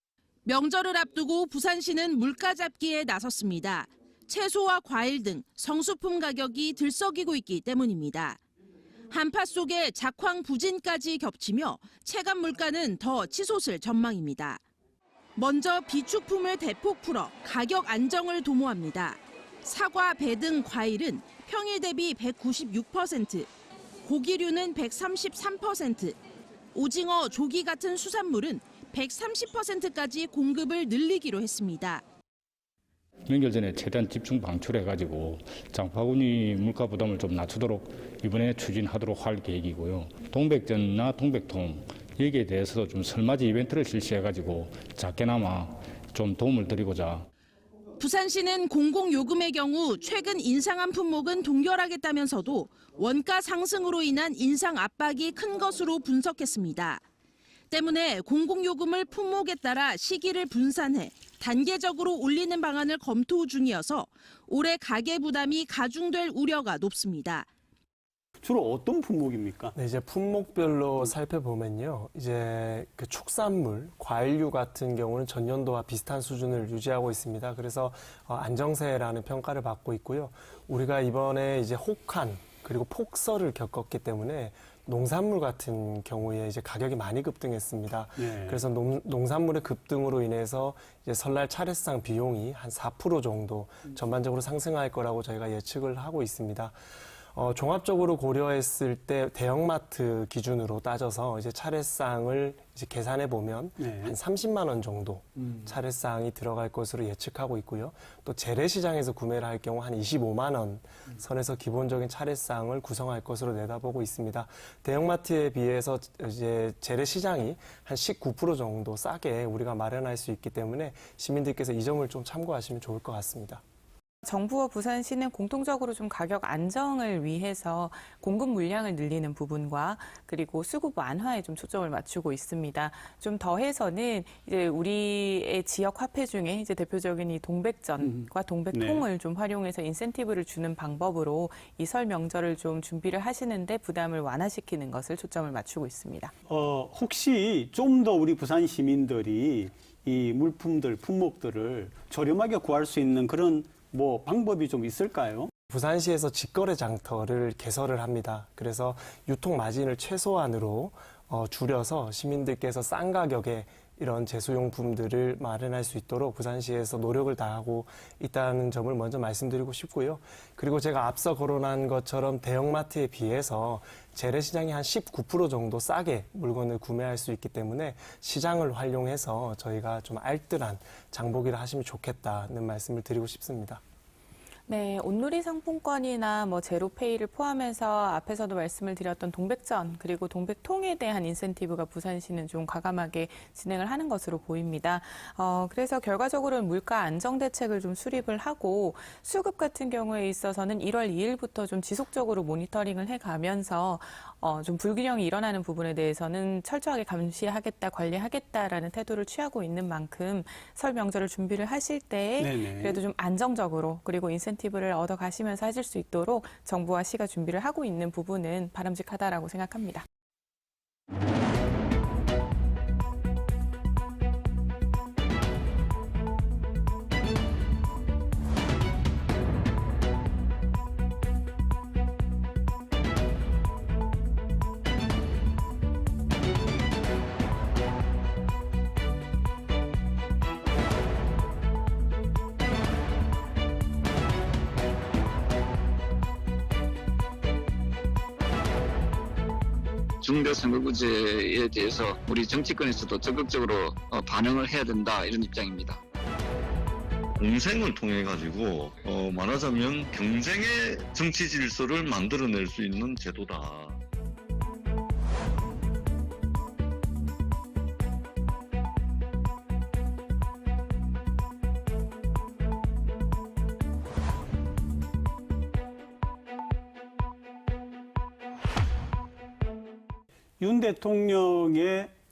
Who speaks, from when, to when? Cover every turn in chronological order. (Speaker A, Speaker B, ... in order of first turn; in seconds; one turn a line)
Speaker A: 0.5-8.4
Speaker A: 9.1-14.6
Speaker A: 15.4-23.5
Speaker A: 24.0-26.2
Speaker A: 26.7-32.0
Speaker B: 33.3-47.3
Speaker A: 48.0-57.0
Speaker A: 57.7-67.5
Speaker C: 68.4-69.8
Speaker D: 69.8-96.8
Speaker C: 88.2-88.6
Speaker D: 97.3-123.6
Speaker C: 103.8-104.2
Speaker E: 124.2-146.3
Speaker C: 138.0-139.1
Speaker C: 146.5-155.5
Speaker D: 155.7-183.8
Speaker E: 184.7-220.1
Speaker C: 212.4-213.0
Speaker F: 250.2-256.0
Speaker G: 257.4-264.0
Speaker C: 280.6-282.1